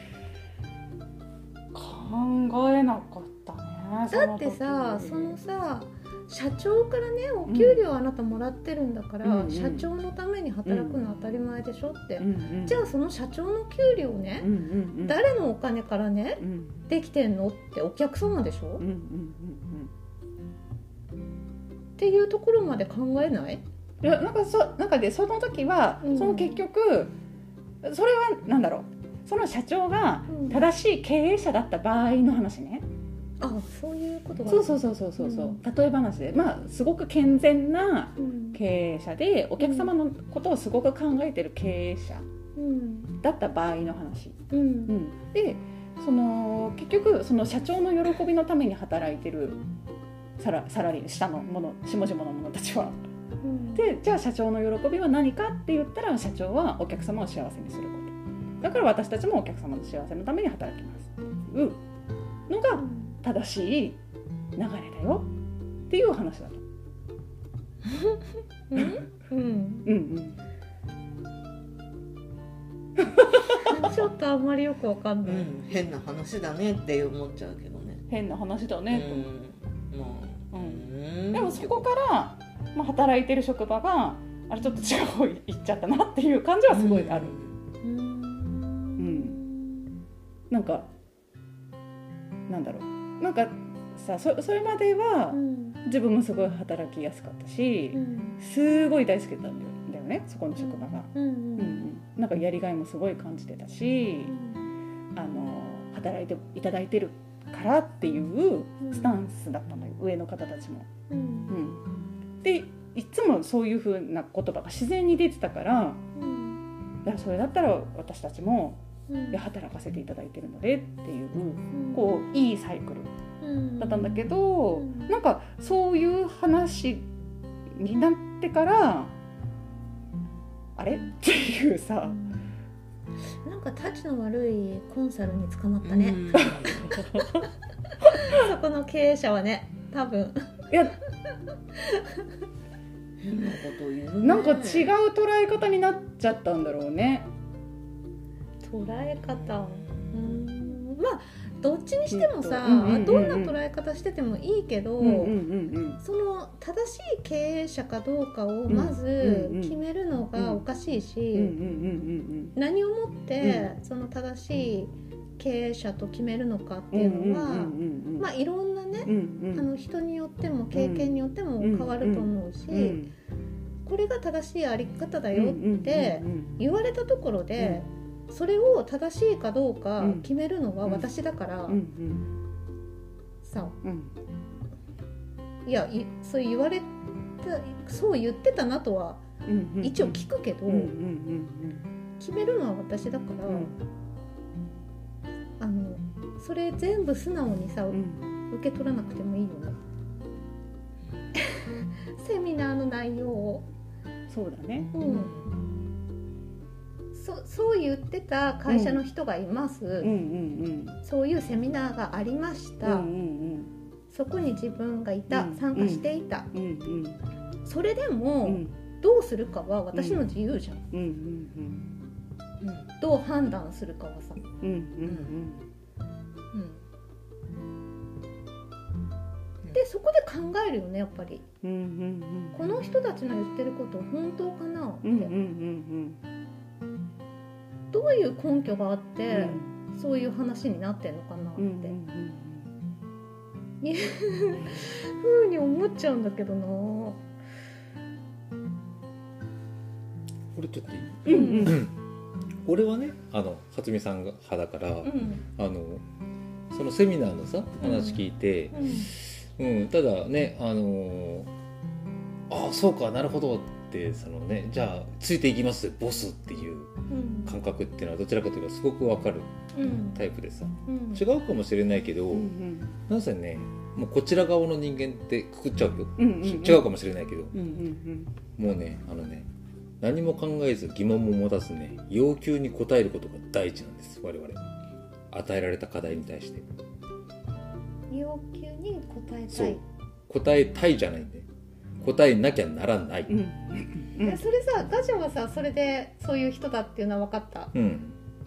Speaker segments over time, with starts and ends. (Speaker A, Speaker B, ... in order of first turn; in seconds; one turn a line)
Speaker A: 1.7-5.4
Speaker B: 4.1-14.5
Speaker A: 7.5-7.9
Speaker A: 9.2-9.9
Speaker A: 10.7-11.0
Speaker A: 12.2-12.8
Speaker A: 14.4-15.2
Speaker B: 15.0-18.8
Speaker A: 16.4-16.8
Speaker A: 18.8-19.9
Speaker B: 22.0-23.6
Speaker A: 24.0-27.1
Speaker B: 26.0-26.6
Speaker A: 27.8-32.8
Speaker B: 30.3-30.6
Speaker B: 33.4-35.6
Speaker A: 34.5-42.2
Speaker B: 38.2-38.6
Speaker B: 39.6-39.9
Speaker B: 42.5-43.1
Speaker A: 43.2-49.6
Speaker B: 44.5-45.0
Speaker A: 50.4-53.0
Speaker B: 53.4-53.8
Speaker A: 53.7-61.8
Speaker A: 62.5-64.0
Speaker B: 62.7-63.1
Speaker A: 64.5-65.3
Speaker A: 65.9-66.6
Speaker B: 68.7-69.9
Speaker A: 69.8-70.4
Speaker A: 73.1-73.7
Speaker B: 73.6-75.5
Speaker C: 75.2-78.0
Speaker A: 78.1-79.2
Speaker C: 78.9-81.8
Speaker A: 80.5-87.3
Speaker C: 86.7-87.6
Speaker B: 87.8-90.0
Speaker A: 89.0-89.4
Speaker A: 90.5-90.9
Speaker A: 92.5-104.3
Speaker B: 95.3-95.8
Speaker B: 97.9-98.4
Speaker B: 100.6-101.9
Speaker B: 104.2-104.7
Speaker A: 105.2-110.9
Speaker B: 108.8-109.2
Speaker B: 111.1-111.5
Speaker A: 111.5-111.8
Speaker A: 112.4-116.0
Speaker B: 116.2-116.6
Speaker A: 117.0-123.1
Speaker B: 119.1-119.4
Speaker B: 121.7-122.2
Speaker B: 123.4-125.1
Speaker A: 123.8-127.1
Speaker A: 127.7-129.1
Speaker A: 130.8-132.2
Speaker B: 132.1-132.3
Speaker B: 133.4-136.9
Speaker C: 135.8-136.9
Speaker A: 136.3-137.4
Speaker B: 138.0-140.7
Speaker C: 143.2-144.9
Speaker A: 144.2-147.3
Speaker B: 148.6-155.4
Speaker C: 148.8-150.7
Speaker A: 152.1-153.6
Speaker A: 155.0-156.0
Speaker B: 156.0-161.5
Speaker A: 158.7-159.8
Speaker A: 160.3-160.6
Speaker A: 161.3-162.5
Speaker B: 162.5-173.0
Speaker A: 163.4-163.7
Speaker A: 166.9-168.3
Speaker A: 169.1-169.7
Speaker A: 170.7-173.1
Speaker B: 173.8-181.8
Speaker A: 175.3-176.6
Speaker A: 177.6-177.8
Speaker A: 180.0-180.3
Speaker A: 180.8-181.1
Speaker A: 181.7-182.3
Speaker B: 183.4-183.7
Speaker A: 183.8-184.1
Speaker B: 185.6-189.2
Speaker A: 189.4-191.8
Speaker B: 189.8-190.9
Speaker B: 192.2-193.7
Speaker A: 193.5-193.8
Speaker B: 195.6-199.8
Speaker A: 197.9-198.3
Speaker B: 201.3-203.7
Speaker A: 204.3-204.9
Speaker B: 204.9-205.4
Speaker C: 205.0-205.5
Speaker B: 207.1-210.1
Speaker A: 208.7-209.0
Speaker A: 210.0-211.0
Speaker B: 211.0-213.1
Speaker A: 212.8-213.7
Speaker B: 214.1-216.5
Speaker A: 215.3-217.2
Speaker B: 217.6-220.8
Speaker A: 218.4-218.7
Speaker A: 219.9-220.3
Speaker A: 220.9-221.9
Speaker C: 222.6-222.9
Speaker B: 223.0-224.4
Speaker A: 224.6-225.6
Speaker C: 225.0-225.3
Speaker B: 226.5-226.8
Speaker B: 229.7-231.4
Speaker A: 231.6-232.6
Speaker B: 232.5-235.3
Speaker A: 235.0-236.2
Speaker B: 237.9-241.9
Speaker A: 239.3-239.7
Speaker A: 241.6-242.7
Speaker B: 243.8-247.2
Speaker D: 250.5-251.9
Speaker A: 251.2-251.8
Speaker B: 251.2-251.8
Speaker D: 252.6-256.0
Speaker B: 255.0-255.4
Speaker D: 256.7-261.5
Speaker B: 257.8-258.2
Speaker B: 258.7-259.1
Speaker D: 262.5-266.9
Speaker B: 267.1-267.6
Speaker D: 267.4-272.5
Speaker B: 269.7-270.2
Speaker B: 270.9-271.2
Speaker A: 272.3-273.0
Speaker D: 273.1-277.6
Speaker A: 276.2-276.9
Speaker A: 277.5-278.3
Speaker D: 278.6-279.5
Speaker D: 280.0-284.6
Speaker D: 285.3-286.6
Speaker B: 288.1-289.8
Speaker D: 289.5-291.4
Speaker D: 292.0-293.4
Speaker A: 293.3-294.4
Speaker B: 294.2-297.7
Speaker D: 297.7-298.1